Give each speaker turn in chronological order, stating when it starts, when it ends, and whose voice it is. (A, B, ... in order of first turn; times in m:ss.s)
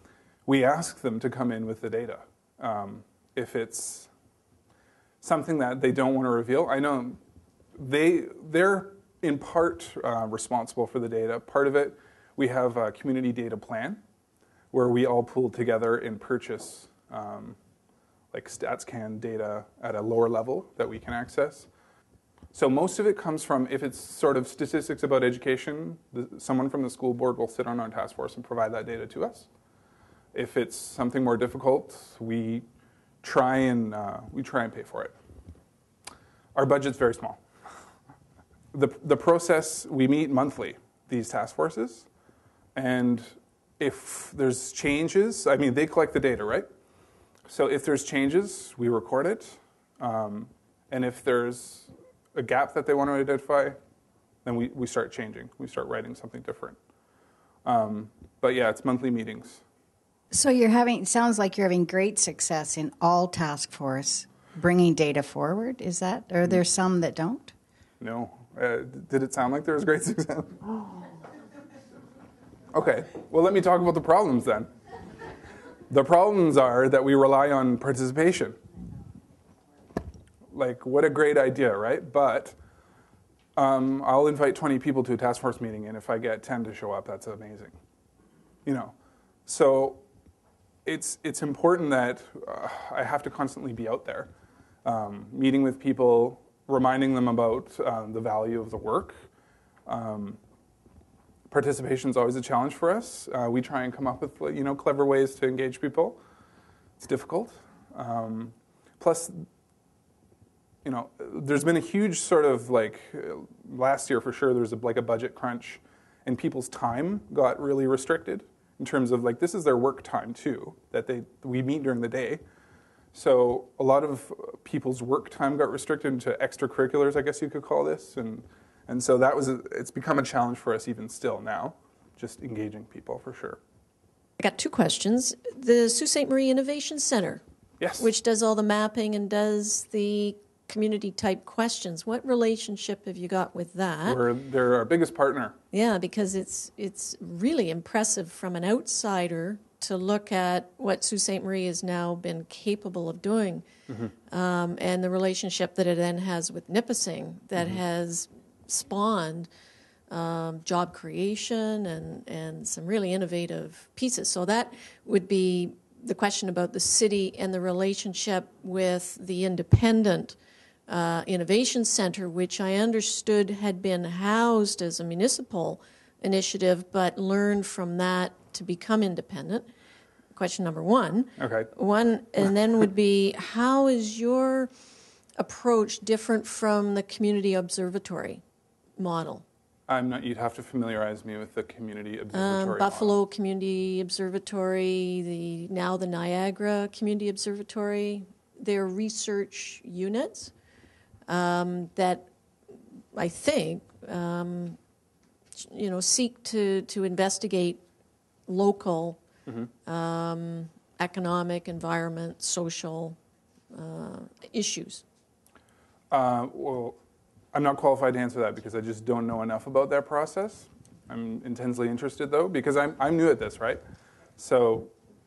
0:00.4-0:04.1 A
0:05.2-0:07.2 A
0:07.8-0:14.0 A
0:14.7-0:17.6 A
0:18.3-0:21.7 A
0:22.5-0:29.5 A
0:30.3-0:32.6 A
0:33.2-0:35.1 A
0:36.5-0:37.4 A
0:38.7-0:42.1 A
0:42.7-0:46.7 A
0:47.5-0:53.8 A
0:54.4-0:56.8 A
0:57.6-0:59.6 A
1:00.3-1:07.5 B
1:08.0-1:10.6 A
1:12.7-1:14.7 A
1:15.9-1:18.6 A
1:20.5-1:22.6 A
1:23.6-1:27.7 A
1:28.6-1:28.9 A
1:29.4-1:30.0 A
1:30.8-1:34.3 A
1:34.8-1:39.2 A
1:39.9-1:40.4 A
1:41.5-1:46.2 A
1:47.0-1:49.4 A
1:50.8-2:02.4 A
2:03.1-2:13.6 A
2:14.4-2:17.4 C
2:17.8-2:18.1 A
2:18.0-2:24.2 C
2:24.0-2:25.5 A
2:25.7-2:33.6 C
2:34.3-2:39.5 C
2:40.1-2:50.4 C
2:50.9-2:59.7 C
3:00.3-3:04.7 C
3:01.4-3:01.7 A
3:05.4-3:08.4 C
3:09.0-3:09.4 C
3:09.9-3:13.1 A
3:12.3-3:20.5 C
3:21.3-3:22.3 C
3:23.1-3:24.8 C
3:25.6-3:27.8 C
3:28.5-3:29.2 C
3:29.8-3:33.2 C
3:33.7-3:35.0 C
3:36.1-3:37.0 A
3:37.5-3:43.8 A
3:44.4-3:44.9 A